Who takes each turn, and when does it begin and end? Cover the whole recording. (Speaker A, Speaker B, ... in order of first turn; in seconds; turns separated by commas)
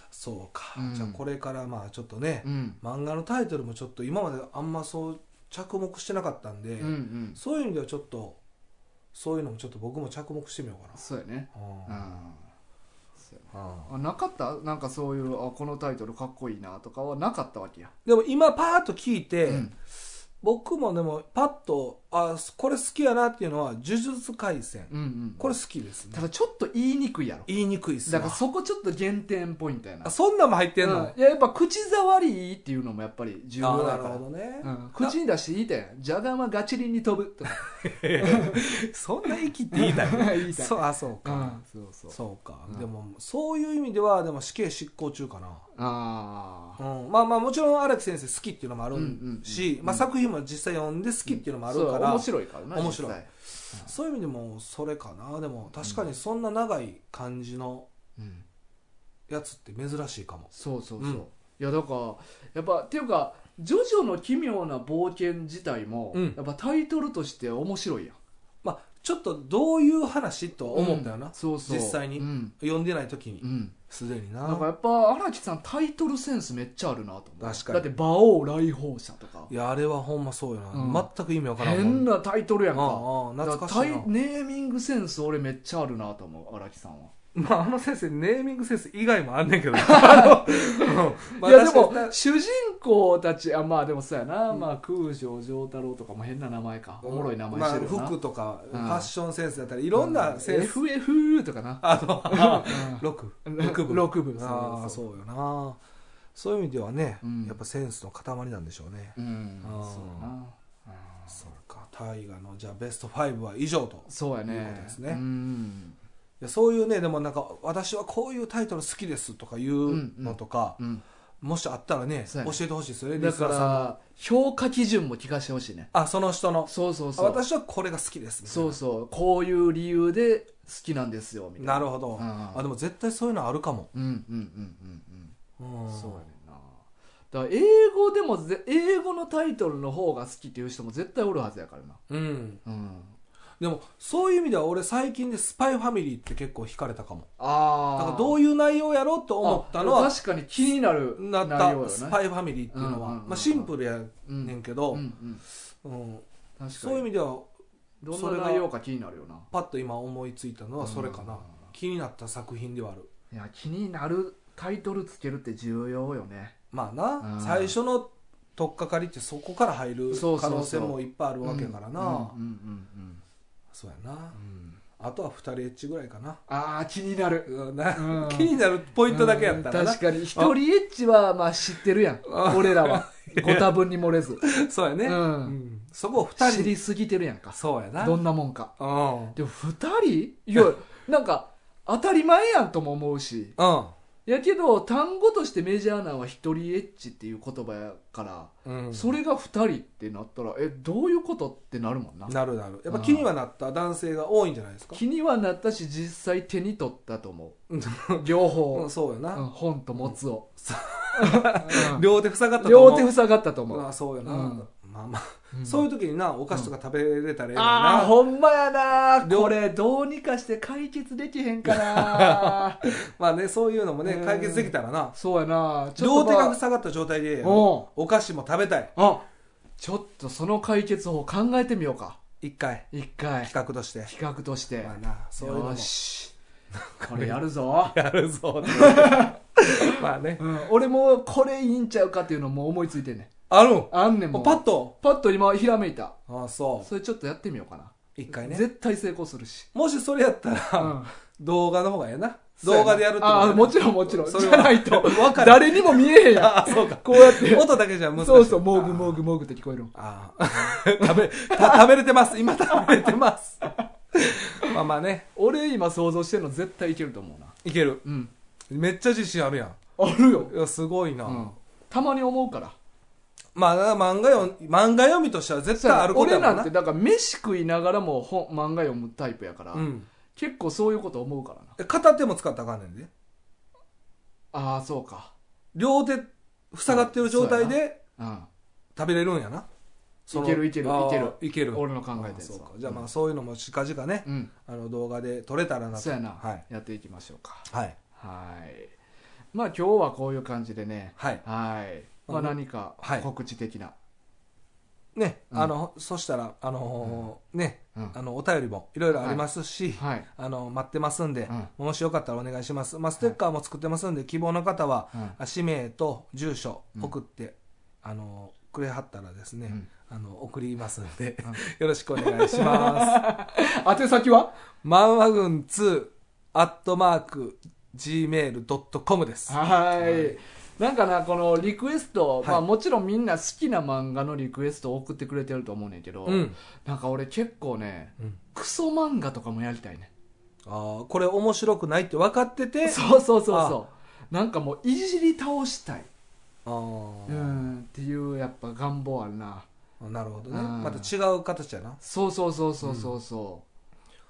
Speaker A: 0.1-8.4, Speaker B: 0.8-1.2, Speaker B: 2.4-2.8, Speaker B: 6.8-7.4, Speaker A: 9.1-11.0, Speaker B: 10.9-12.5, Speaker A: 11.5-12.1, Speaker B: 13.2-17.9, Speaker A: 13.5-13.9, Speaker A: 18.1-19.7, Speaker B: 19.4-19.7, Speaker A: 20.4-26.2, Speaker B: 24.9-25.5, Speaker B: 26.1-27.5, Speaker A: 27.5-28.4, Speaker B: 28.0-30.1, Speaker A: 30.0-31.1, Speaker B: 30.8-38.7, Speaker A: 33.6-35.1, Speaker A: 37.5-41.6, Speaker B: 39.3-42.9, Speaker A: 42.1-45.6, Speaker B: 45.7-46.8, Speaker A: 46.8-57.9, Speaker B: 48.9-50.0, Speaker B: 51.3-53.9, Speaker B: 58.2-58.4, Speaker A: 59.3-61.2, Speaker B: 60.5-68.2, Speaker A: 66.1-66.4, Speaker A: 68.6-74.7, Speaker B: 70.7-72.5, Speaker B: 73.4-73.8, Speaker B: 74.4-79.5, Speaker A: 77.4-77.8, Speaker A: 79.5-82.1, Speaker B: 80.7-87.1, Speaker A: 82.7-84.1, Speaker A: 87.3-92.2, Speaker B: 89.8-98.1, Speaker A: 97.0-100.8, Speaker B: 98.7-99.1, Speaker B: 99.9-105.0, Speaker A: 101.8-105.8, Speaker A: 106.3-110.3, Speaker B: 107.2-107.6, Speaker B: 109.2-111.3, Speaker A: 111.3-115.2, Speaker B: 114.1-116.0, Speaker A: 116.4-120.8, Speaker B: 119.9-121.0, Speaker A: 121.4-123.9, Speaker B: 122.3-122.6, Speaker B: 123.1-125.9, Speaker A: 125.9-128.8, Speaker B: 126.7-127.4, Speaker B: 128.4-132.6, Speaker A: 131.6-133.9, Speaker B: 133.9-135.3, Speaker A: 135.6-136.2, Speaker B: 135.9-136.8, Speaker B: 137.3-142.0, Speaker A: 142.1-142.6, Speaker B: 142.6-143.1, Speaker A: 143.6-147.3, Speaker B: 147.4-148.4, Speaker A: 148.0-150.1, Speaker B: 149.4-152.2, Speaker A: 151.2-155.0, Speaker B: 152.7-153.7, Speaker B: 154.2-155.4, Speaker A: 155.8-156.2, Speaker B: 156.6-157.1, Speaker A: 156.8-157.5, Speaker B: 158.0-159.5, Speaker A: 158.1-158.7, Speaker A: 159.5-163.1, Speaker B: 160.8-161.7, Speaker B: 163.3-166.6, Speaker A: 166.7-172.3, Speaker B: 167.2-167.7, Speaker B: 170.1-173.2, Speaker A: 173.7-176.4, Speaker B: 174.5-174.8, Speaker B: 176.5-178.5, Speaker A: 177.4-180.5, Speaker B: 179.1-184.4, Speaker A: 182.2-183.7, Speaker A: 184.4-186.7, Speaker B: 185.0-185.6, Speaker B: 186.3-188.7, Speaker A: 187.6-188.2, Speaker A: 188.8-189.3, Speaker B: 189.3-193.6, Speaker A: 193.6-193.9, Speaker B: 194.2-202.3, Speaker A: 198.6-199.1, Speaker A: 202.3-205.0, Speaker B: 202.9-203.3, Speaker B: 204.9-207.6, Speaker A: 207.7-209.5, Speaker B: 208.2-210.5, Speaker A: 210.0-213.1, Speaker B: 211.1-212.1, Speaker B: 212.6-214.7, Speaker A: 213.7-218.2, Speaker B: 215.5-215.8, Speaker B: 217.5-222.9, Speaker A: 219.2-219.6, Speaker A: 221.6-225.1, Speaker B: 224.0-226.6, Speaker A: 226.0-228.9, Speaker B: 227.4-227.9, Speaker B: 228.9-229.2, Speaker B: 229.8-232.2, Speaker A: 232.4-232.9, Speaker B: 232.9-233.5, Speaker A: 233.4-234.1, Speaker B: 234.0-236.3, Speaker A: 234.8-235.9, Speaker A: 236.7-240.4, Speaker B: 237.0-237.9, Speaker B: 238.7-243.3, Speaker A: 243.5-244.9, Speaker B: 243.9-246.2, Speaker A: 246.3-246.9, Speaker B: 246.8-249.7, Speaker A: 248.2-248.6, Speaker A: 249.7-259.2, Speaker B: 250.8-251.1, Speaker B: 252.6-259.9, Speaker A: 259.9-263.6, Speaker B: 260.5-261.8, Speaker B: 262.7-263.1, Speaker A: 264.1-265.2, Speaker B: 265.4-268.3, Speaker A: 267.6-268.0, Speaker A: 268.7-269.8, Speaker B: 270.0-270.5, Speaker A: 270.5-271.4, Speaker B: 271.2-272.8, Speaker A: 273.5-276.7, Speaker B: 275.8-281.8, Speaker A: 279.7-280.1, Speaker A: 281.8-283.1, Speaker B: 284.5-285.3, Speaker A: 285.7-288.0, Speaker B: 286.9-288.5, Speaker A: 288.9-289.7, Speaker A: 290.3-296.6, Speaker B: 290.3-293.1, Speaker B: 294.2-294.5, Speaker B: 295.9-298.9, Speaker A: 297.7-297.9, Speaker B: 299.5-303.9, Speaker A: 301.2-301.4, Speaker A: 302.3-303.3, Speaker A: 305.1-323.2, Speaker B: 309.1-309.4, Speaker B: 309.9-310.3, Speaker B: 322.2-324.5, Speaker A: 324.8-330.4, Speaker B: 329.5-340.1, Speaker A: 336.2-336.6, Speaker A: 340.6-343.8, Speaker B: 342.8-346.1, Speaker A: 346.6-347.7, Speaker B: 347.3-349.7, Speaker A: 350.0-352.0, Speaker B: 350.5-351.1, Speaker B: 352.0-353.6, Speaker A: 352.8-353.1